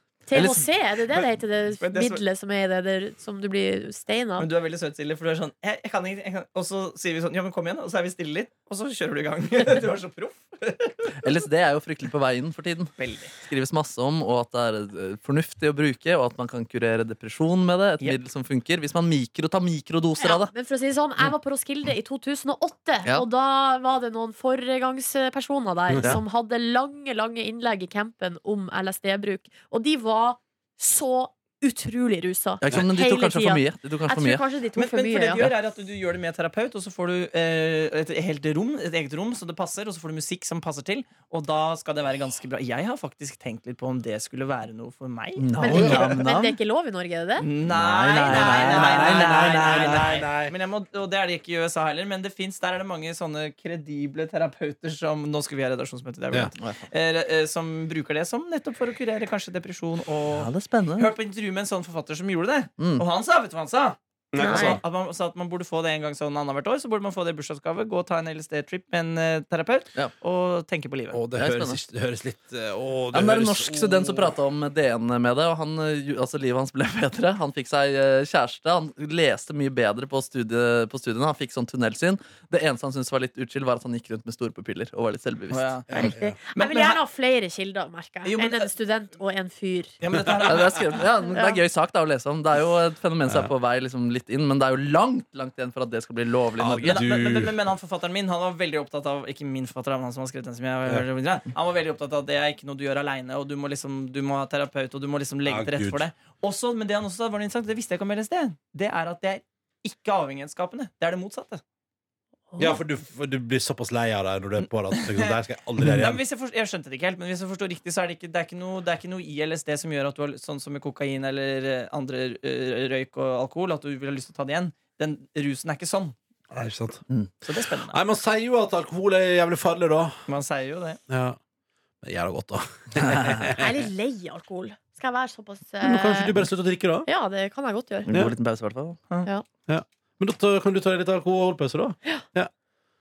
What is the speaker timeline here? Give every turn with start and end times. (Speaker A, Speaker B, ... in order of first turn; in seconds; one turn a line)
Speaker A: 0.3-4.5
Speaker B: 0.3-0.7
Speaker C: 1.8-2.2
Speaker C: 4.4-11.1
Speaker B: 11.2-20.5
Speaker C: 13.0-13.4
Speaker A: 20.2-35.5
Speaker D: 25.9-26.2
Speaker B: 32.6-34.5
Speaker C: 34.8-46.2
Speaker B: 45.4-46.6
Speaker A: 45.6-47.5
Speaker D: 45.6-46.1
Speaker C: 47.4-71.2
Speaker B: 47.7-50.0
Speaker A: 48.1-49.5
Speaker D: 48.8-50.5
Speaker B: 56.6-56.8
Speaker B: 60.3-61.1
Speaker B: 62.8-63.0
Speaker D: 64.3-64.8
Speaker A: 64.4-64.8
Speaker D: 71.1-74.3
Speaker B: 71.3-71.8
Speaker B: 73.1-85.7
Speaker C: 85.5-87.0
Speaker D: 85.9-86.4
Speaker A: 85.9-90.0
Speaker C: 88.2-88.7
Speaker C: 90.0-90.8
Speaker B: 90.5-97.0
Speaker A: 91.2-91.6
Speaker D: 96.6-97.6
Speaker C: 96.8-111.6
Speaker D: 105.4-106.0
Speaker D: 112.6-116.2
Speaker C: 114.6-115.3
Speaker C: 115.9-126.1
Speaker D: 126.5-127.0
Speaker C: 127.4-128.0
Speaker D: 127.9-130.2
Speaker C: 130.3-131.0
Speaker D: 131.1-131.4
Speaker D: 132.0-133.7
Speaker A: 133.6-136.4
Speaker D: 135.8-137.1
Speaker A: 137.1-138.1
Speaker B: 138.1-139.0
Speaker D: 139.7-142.5